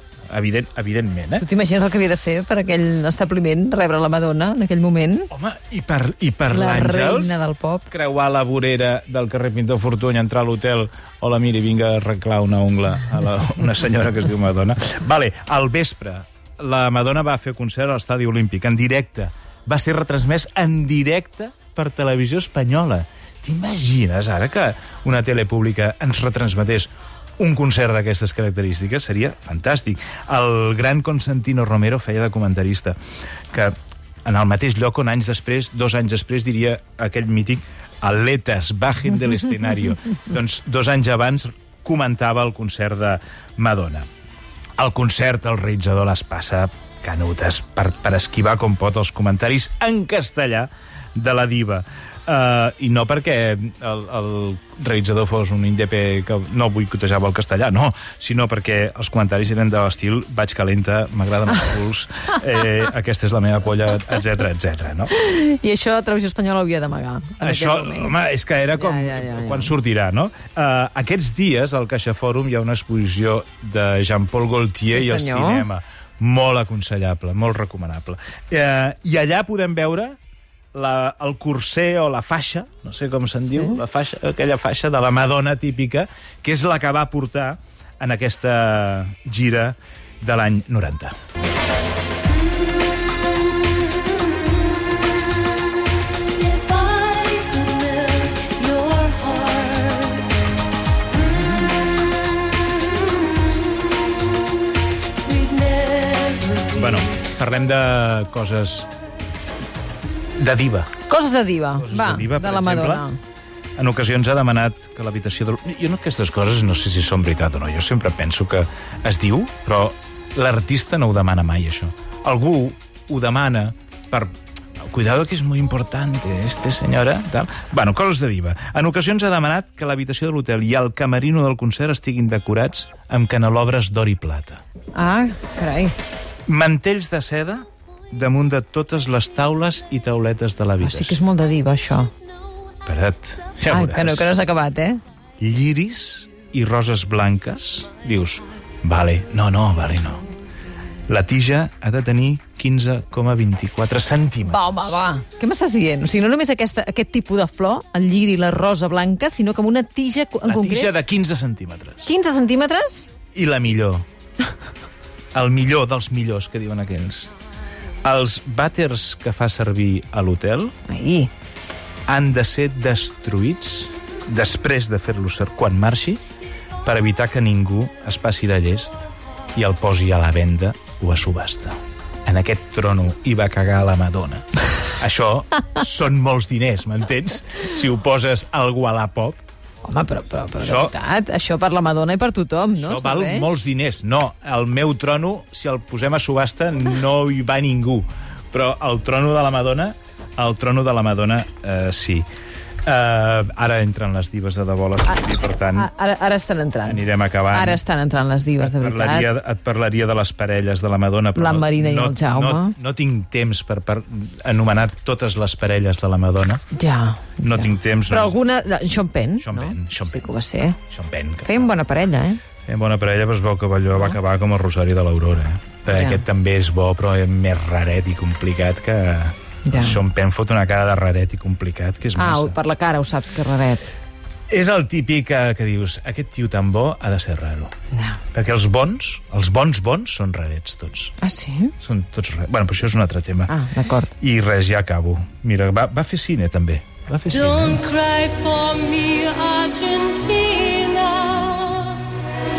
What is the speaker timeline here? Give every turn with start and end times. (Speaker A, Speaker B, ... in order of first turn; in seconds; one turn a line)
Speaker A: 0.3-1.5
Speaker B: 1.4-5.3
Speaker A: 5.3-33.0
Speaker B: 6.5-7.9
Speaker A: 33.5-44.1
Speaker A: 44.8-65.1
Speaker B: 65.1-68.2
Speaker A: 67.4-80.2
Speaker B: 68.8-69.7
Speaker B: 74.9-75.7
Speaker A: 80.8-91.1
Speaker C: 93.7-95.3
Speaker C: 96.3-100.4
Speaker C: 101.1-103.9
Speaker C: 105.2-107.1
Speaker A: 106.7-108.9
Speaker A: 110.4-111.0
Speaker B: 111.1-113.2
Speaker A: 111.8-113.1
Speaker A: 113.8-134.6
Speaker B: 134.9-135.9
Speaker A: 136.5-141.2
Speaker B: 140.8-142.1
Speaker A: 142.8-144.4
Speaker B: 143.7-145.0
Speaker A: 145.4-150.3
Speaker A: 151.1-154.7
Speaker B: 154.4-160.9
Speaker A: 160.4-162.1
Speaker B: 162.1-163.1
Speaker A: 163.3-164.1
Speaker A: 165.3-167.3
Speaker A: 168.0-170.7
Speaker B: 170.9-171.3
Speaker A: 172.1-176.2
Speaker A: 176.8-184.4
Speaker A: 185.0-189.4
Speaker B: 189.8-193.6
Speaker A: 190.6-190.9
Speaker A: 192.8-202.3
Speaker A: 202.8-205.9
Speaker B: 205.8-209.3
Speaker A: 206.9-207.8
Speaker A: 208.6-216.6
Speaker B: 211.3-212.8
Speaker B: 216.7-220.8
Speaker A: 217.4-218.4
Speaker A: 219.4-220.3
Speaker A: 220.8-221.8
Speaker B: 221.5-222.4
Speaker A: 222.7-232.6
Speaker B: 225.9-226.2
Speaker B: 229.7-230.0
Speaker B: 232.2-233.8
Speaker A: 234.5-237.7
Speaker B: 237.9-238.2
Speaker A: 238.3-241.1
Speaker B: 241.2-241.8
Speaker A: 241.8-243.5
Speaker B: 243.5-244.1
Speaker A: 244.2-247.8
Speaker C: 247.3-252.2